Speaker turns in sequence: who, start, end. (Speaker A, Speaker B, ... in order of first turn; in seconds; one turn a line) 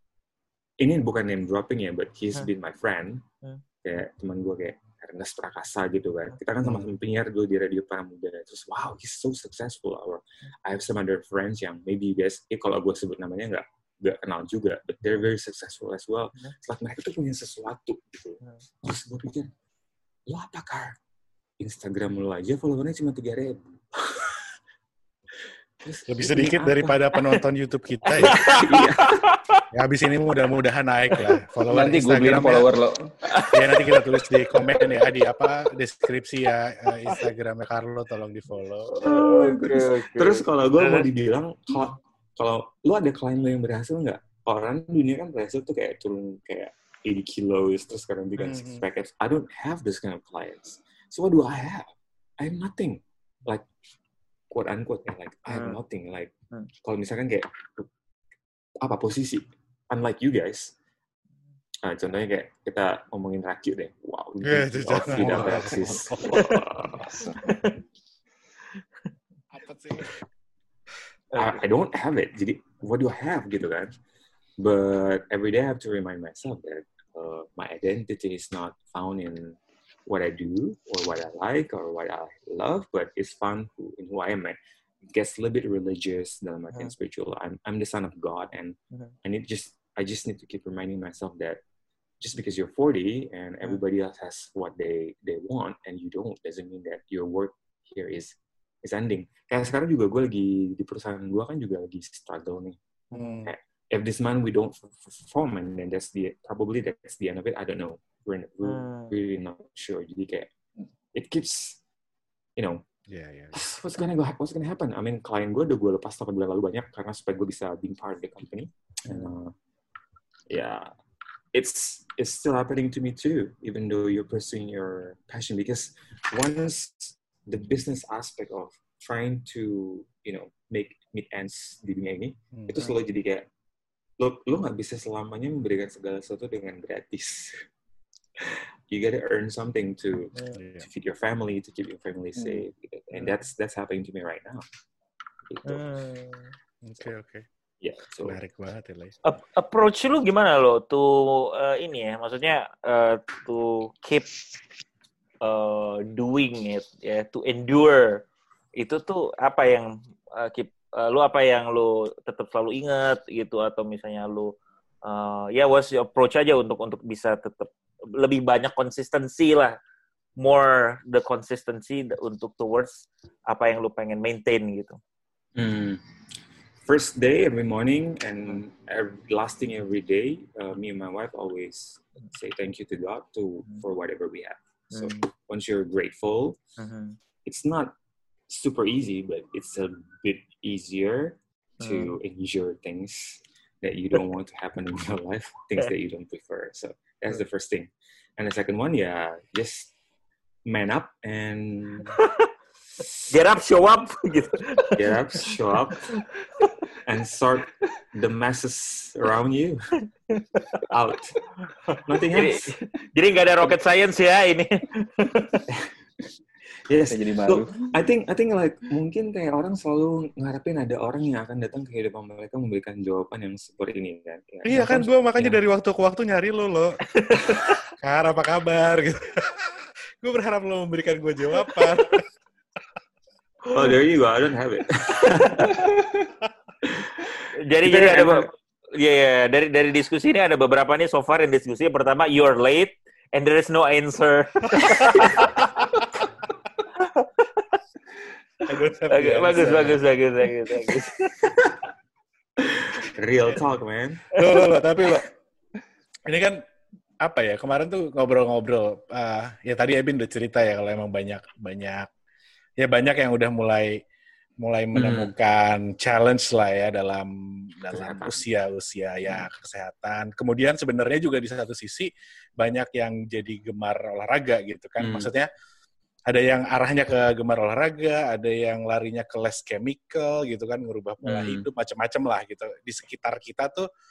Speaker A: 0.8-3.2
Speaker A: 3.8-19.5
Speaker A: 20.3-20.9
Speaker A: 21.6-24.4
Speaker A: 25.8-27.0
Speaker B: 26.1-28.5
Speaker C: 28.1-29.6
Speaker A: 28.2-29.2
Speaker B: 29.7-32.7
Speaker D: 31.7-33.1
Speaker C: 33.3-34.9
Speaker B: 33.5-39.0
Speaker C: 39.0-41.0
Speaker A: 39.0-53.6
Speaker B: 48.4-48.8
Speaker A: 54.5-56.3
Speaker C: 55.5-55.8
Speaker A: 56.8-57.9
Speaker A: 58.8-60.7
Speaker A: 61.8-67.0
Speaker B: 64.4-66.2
Speaker D: 66.2-67.4
Speaker C: 66.3-66.6
Speaker C: 67.4-67.8
Speaker B: 69.5-70.2
Speaker C: 71.3-71.6
Speaker A: 71.3-73.9
Speaker A: 74.6-84.6
Speaker A: 85.1-91.6
Speaker A: 92.2-102.8
Speaker B: 103.1-103.5
Speaker A: 103.4-110.5
Speaker C: 108.6-109.1
Speaker A: 111.1-111.8
Speaker B: 113.1-113.5
Speaker A: 113.5-119.5
Speaker C: 119.1-119.3
Speaker A: 120.5-120.9
Speaker A: 121.5-133.5
Speaker B: 132.5-132.9
Speaker A: 134.2-137.7
Speaker A: 138.4-144.6
Speaker B: 140.5-140.9
Speaker D: 142.4-142.6
Speaker A: 145.5-145.8
Speaker C: 145.7-146.5
Speaker B: 146.8-147.4
Speaker A: 147.8-148.4
Speaker B: 148.2-149.1
Speaker C: 149.2-154.3
Speaker C: 155.4-158.2
Speaker C: 158.8-164.5
Speaker C: 165.0-169.8
Speaker C: 170.4-175.0
Speaker A: 175.6-176.0
Speaker A: 176.8-186.6
Speaker C: 184.9-185.2
Speaker C: 186.8-187.2
Speaker A: 187.4-187.9
Speaker A: 188.5-199.9
Speaker C: 191.8-192.1
Speaker A: 200.7-202.2
Speaker C: 202.1-202.5
Speaker A: 203.0-203.4
Speaker C: 203.3-205.1
Speaker A: 204.9-206.1
Speaker C: 206.0-206.7
Speaker A: 207.0-209.8
Speaker C: 210.3-210.8
Speaker A: 210.9-211.4
Speaker C: 211.9-215.6
Speaker A: 212.1-212.8
Speaker A: 216.9-225.5
Speaker D: 217.1-217.9
Speaker B: 224.6-226.9
Speaker C: 227.1-227.7
Speaker B: 228.0-232.2
Speaker A: 233.7-235.9
Speaker C: 235.2-235.8
Speaker A: 236.9-238.5
Speaker C: 237.7-245.7
Speaker C: 246.9-247.6
Speaker B: 248.7-250.0
Speaker C: 249.1-251.5
Speaker A: 252.9-254.2
Speaker B: 254.3-255.3
Speaker C: 254.3-254.6
Speaker B: 256.3-256.6
Speaker B: 257.2-262.1
Speaker B: 262.8-264.0
Speaker B: 264.6-275.5
Speaker A: 264.9-265.3
Speaker A: 267.9-268.4
Speaker A: 275.0-275.3
Speaker B: 276.3-283.9
Speaker A: 281.2-281.7